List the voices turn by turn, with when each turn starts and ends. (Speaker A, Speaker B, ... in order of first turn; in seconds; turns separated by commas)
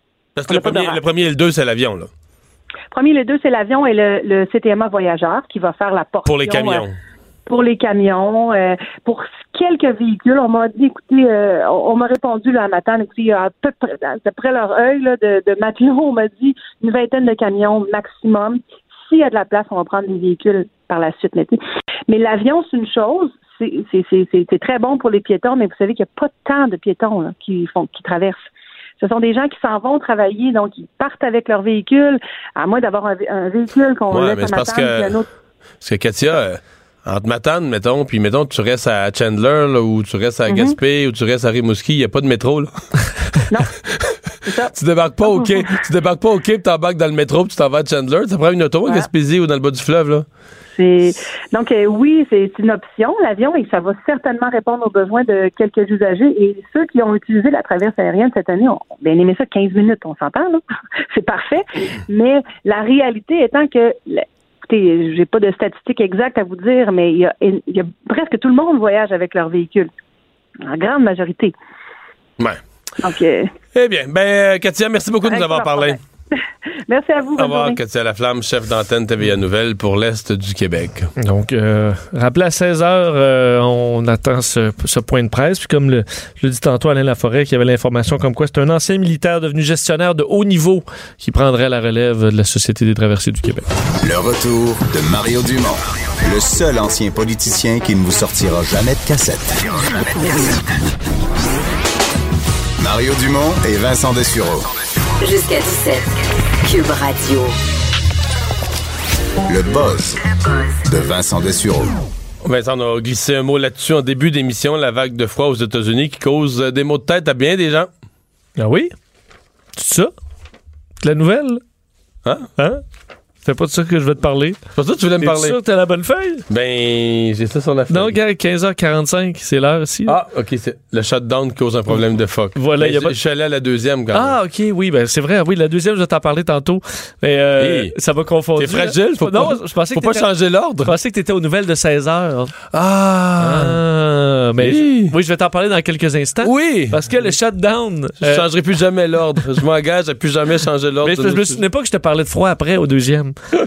Speaker A: 0.4-2.1, Speaker B: 0.5-1.0, Speaker B: 2.9-6.8, Speaker A: 6.2-6.9, Speaker B: 7.5-28.4, Speaker B: 29.0-35.2, Speaker A: 34.1-35.2, Speaker A: 35.8-42.7, Speaker B: 40.5-40.8, Speaker B: 44.5-44.7, Speaker A: 44.7-50.2, Speaker B: 45.2-45.8, Speaker B: 50.7-69.9, Speaker B: 70.6-71.5, Speaker B: 73.0-73.5, Speaker A: 73.7-76.0, Speaker B: 75.2-77.8, Speaker A: 77.4-81.1, Speaker C: 81.2-93.7, Speaker D: 94.0-100.6, Speaker D: 102.8-104.7, Speaker E: 105.2-107.5, Speaker D: 109.5-110.2, Speaker D: 110.9-112.0, Speaker A: 112.4-117.9, Speaker C: 118.6-118.9, Speaker C: 119.8-120.1, Speaker C: 121.0-121.6, Speaker A: 122.2-122.5, Speaker C: 122.6-122.8, Speaker C: 123.4-124.6, Speaker A: 124.8-125.6, Speaker C: 125.2-126.4, Speaker A: 126.5-128.1, Speaker C: 127.9-130.1, Speaker A: 130.1-134.3, Speaker C: 132.6-133.1, Speaker C: 134.1-140.3, Speaker A: 137.6-137.9, Speaker A: 138.6-140.9, Speaker C: 140.8-142.6, Speaker A: 142.7-143.8, Speaker C: 143.4-148.4, Speaker A: 144.6-145.1, Speaker A: 146.4-147.0, Speaker A: 148.2-151.6, Speaker C: 151.0-153.3